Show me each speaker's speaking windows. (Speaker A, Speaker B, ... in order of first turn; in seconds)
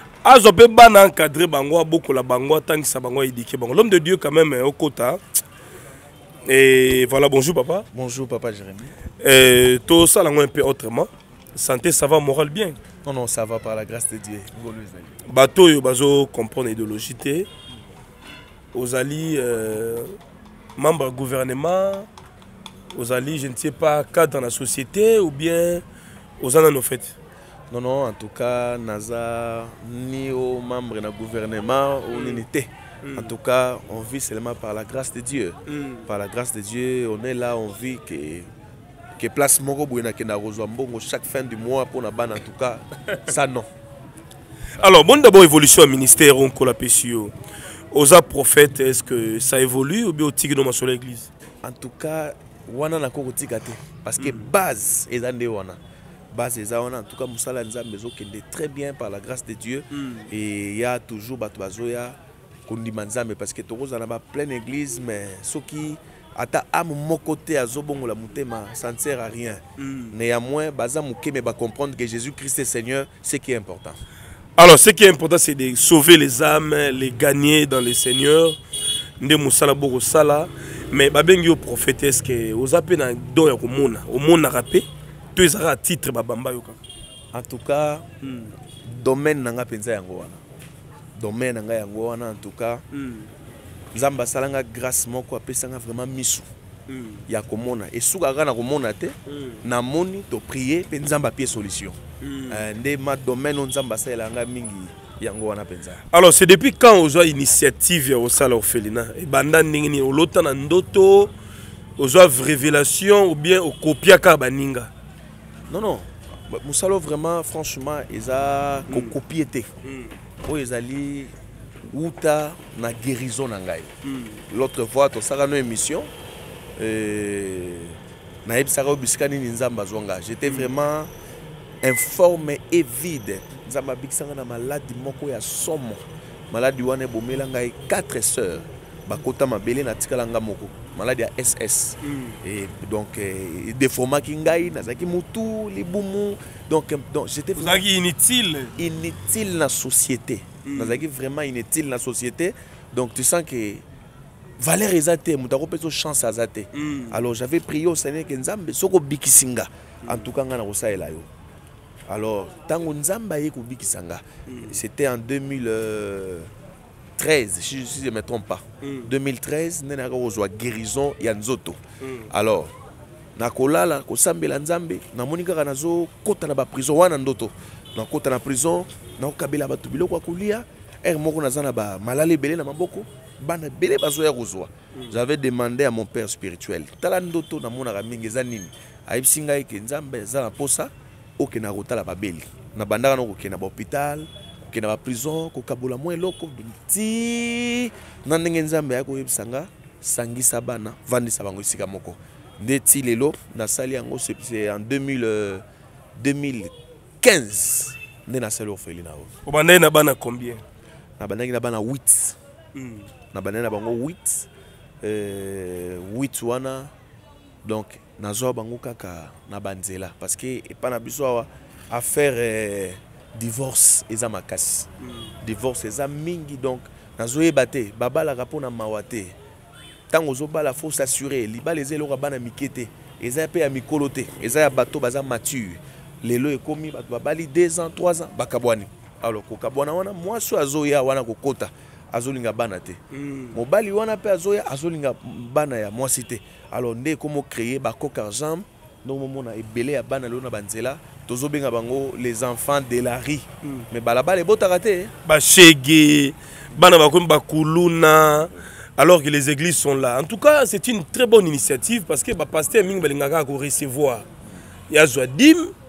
Speaker A: 0.2-5.2, 6.5-7.8, 9.2-12.8, 15.2-17.5, 18.7-20.1, 20.8-22.1, 22.9-25.8, 26.4-27.1, 32.1-32.4, 33.0-33.3, 35.7-36.1, 44.8-47.3, 47.9-51.3, 54.2-54.5, 59.9-60.3, 69.8-70.1, 74.6-78.6, 79.2-86.8, 88.2-88.5, 92.9-93.3, 96.9-97.2, 99.3-99.6, 102.2-102.7, 106.1-111.3, 112.0-114.9, 118.9-119.2, 119.8-120.2, 124.0-124.4, 130.4-130.7, 142.0-142.4, 147.6-148.7, 150.6-151.0, 156.7-157.2, 160.0-160.3, 164.5-164.8, 168.8-169.1, 172.0-172.3, 209.4-210.6, 212.7-213.1, 225.0-225.3, 243.1-243.6, 255.2-264.3, 264.9-265.7
Speaker B: 7.9-9.0, 13.0-15.2, 27.7-38.5, 39.2-43.7, 51.6-55.8, 56.3-74.0, 87.3-88.0, 88.8-90.4, 91.2-92.8, 93.9-96.5, 97.3-102.0, 102.5-106.0, 115.7-119.7, 120.4-121.3, 121.9-123.9, 124.5-126.1, 126.8-131.1, 131.8-147.8, 148.8-153.8, 154.6-161.3, 162.1-166.5, 167.2-172.7, 173.3-205.6, 206.2-209.3, 211.2-212.4, 213.3-214.5, 215.0-216.9, 217.6-224.9, 225.4-229.3, 230.1-243.0, 243.5-255.1